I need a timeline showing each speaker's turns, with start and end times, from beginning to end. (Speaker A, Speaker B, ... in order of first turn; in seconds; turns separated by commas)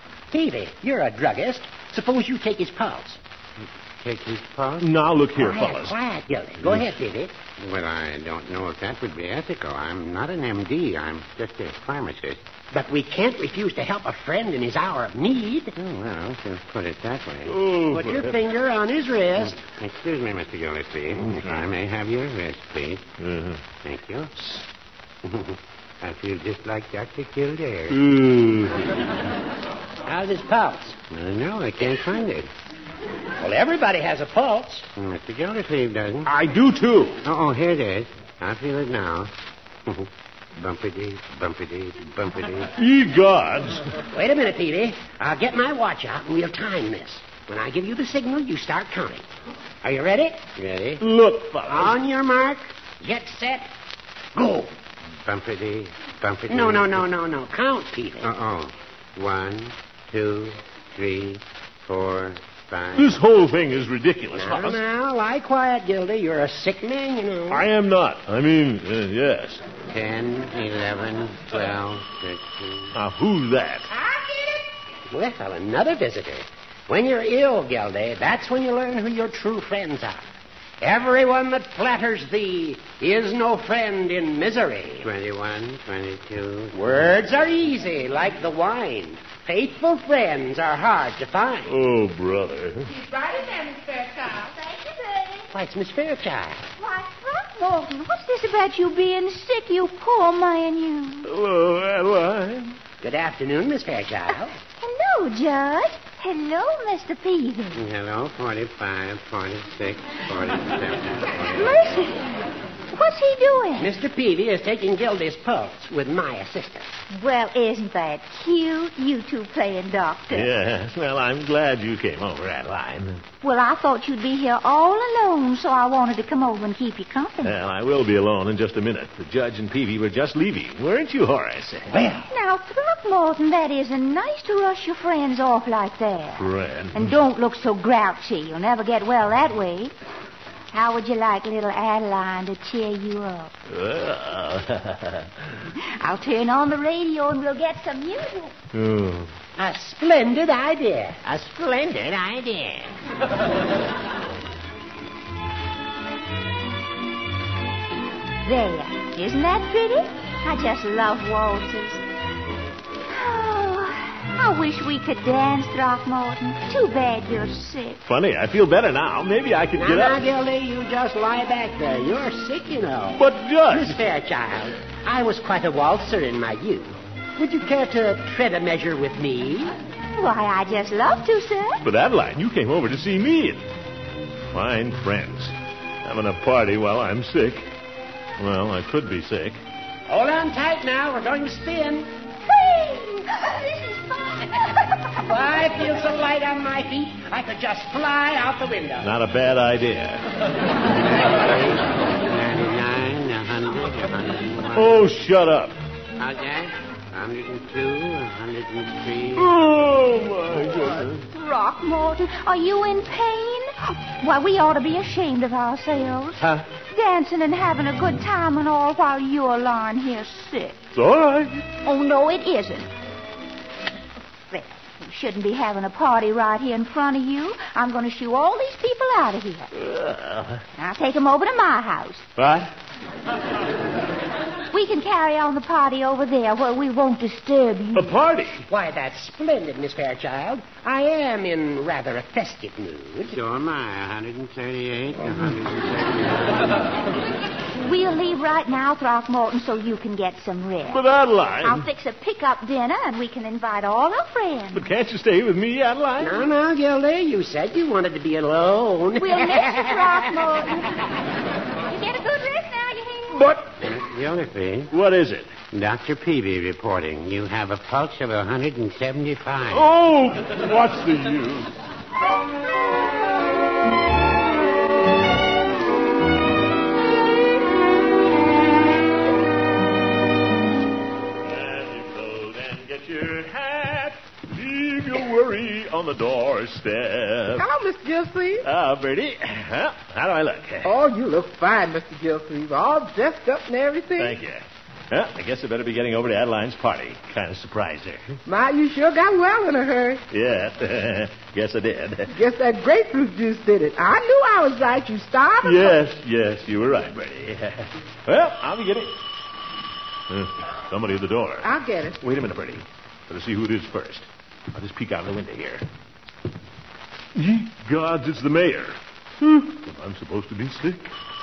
Speaker A: 0.3-3.2, Speaker B: 3.6-4.9, Speaker C: 4.8-6.0, Speaker A: 5.4-7.3, Speaker B: 7.6-12.4, Speaker A: 12.7-15.7, Speaker B: 15.8-17.6, Speaker C: 17.4-18.4, Speaker A: 17.9-19.6, Speaker B: 19.6-23.1, Speaker C: 23.2-23.6, Speaker B: 23.8-24.3, Speaker B: 25.2-28.0, Speaker C: 27.9-29.0, Speaker A: 30.1-31.0, Speaker B: 31.1-32.5, Speaker A: 33.4-34.9, Speaker B: 34.9-36.3, Speaker C: 36.2-37.2, Speaker B: 37.2-39.3, Speaker B: 39.9-42.7, Speaker C: 42.8-43.9, Speaker A: 44.1-49.2, Speaker A: 49.8-50.5, Speaker B: 50.5-51.0, Speaker C: 51.0-52.0, Speaker A: 51.7-53.7, Speaker A: 54.3-54.7, Speaker B: 55.2-57.1, Speaker A: 56.5-58.3, Speaker B: 58.2-63.2, Speaker C: 62.9-64.8, Speaker A: 64.3-67.7, Speaker C: 67.5-69.6, Speaker B: 69.9-72.9, Speaker C: 72.9-73.9, Speaker D: 74.0-74.6, Speaker A: 75.1-80.2, Speaker A: 80.8-85.1, Speaker B: 85.0-87.1, Speaker A: 86.7-91.7, Speaker C: 91.6-92.9, Speaker D: 92.9-94.5, Speaker E: 94.5-95.5, Speaker A: 95.5-96.7, Speaker E: 96.8-101.3, Speaker C: 101.2-102.8, Speaker A: 103.0-104.6, Speaker E: 104.8-107.8, Speaker B: 107.7-111.9, Speaker E: 111.5-112.2, Speaker E: 112.9-113.9, Speaker A: 113.8-116.9, Speaker E: 117.1-120.5, Speaker C: 120.3-123.2, Speaker E: 123.4-127.6, Speaker C: 127.4-132.0, Speaker A: 131.9-132.3, Speaker E: 132.3-139.9, Speaker C: 136.3-137.2, Speaker E: 140.7-143.5, Speaker C: 143.7-145.4, Speaker E: 146.0-148.5, Speaker C: 148.7-149.3, Speaker A: 149.6-152.9, Speaker E: 158.4-162.0, Speaker E: 163.1-168.0, Speaker C: 168.0-170.2, Speaker A: 169.8-179.7, Speaker C: 173.1-174.0, Speaker E: 180.2-181.8, Speaker C: 181.8-183.6, Speaker C: 184.5-187.7, Speaker C: 188.4-189.6, Speaker A: 190.1-192.1, Speaker E: 192.4-194.8, Speaker A: 195.2-199.1, Speaker C: 199.0-200.2, Speaker B: 201.0-205.0, Speaker C: 204.7-205.8, Speaker B: 206.2-209.5, Speaker C: 209.3-211.3, Speaker E: 211.3-220.8, Speaker C: 220.9-221.6, Speaker E: 221.8-222.9, Speaker E: 224.5-229.7, Speaker C: 229.7-230.6, Speaker E: 230.8-232.2, Speaker C: 232.3-232.7, Speaker E: 234.7-238.2, Speaker C: 237.9-238.7, Speaker A: 238.7-243.3, Speaker B: 243.3-246.8, Speaker E: 247.8-251.0, Speaker C: 250.8-251.9, Speaker E: 251.6-254.9, Speaker C: 254.7-256.5, Speaker A: 256.2-260.5, Speaker E: 259.2-260.9, Speaker E: 261.9-263.4, Speaker C: 263.3-263.7, Speaker B: 263.8-264.9, Speaker C: 264.9-265.5, Speaker B: 265.7-269.9, Speaker C: 269.7-271.7, Speaker C: 281.4-287.7, Speaker D: 287.6-288.6, Speaker C: 288.6-290.9, Speaker D: 290.8-294.4, Speaker C: 294.2-298.4, Speaker D: 298.4-300.2, Speaker C: 300.3-302.3, Speaker D: 302.3-305.9, Speaker C: 305.6-309.1, Speaker C: 310.3-315.8, Speaker D: 311.6-312.2, Speaker C: 317.3-321.1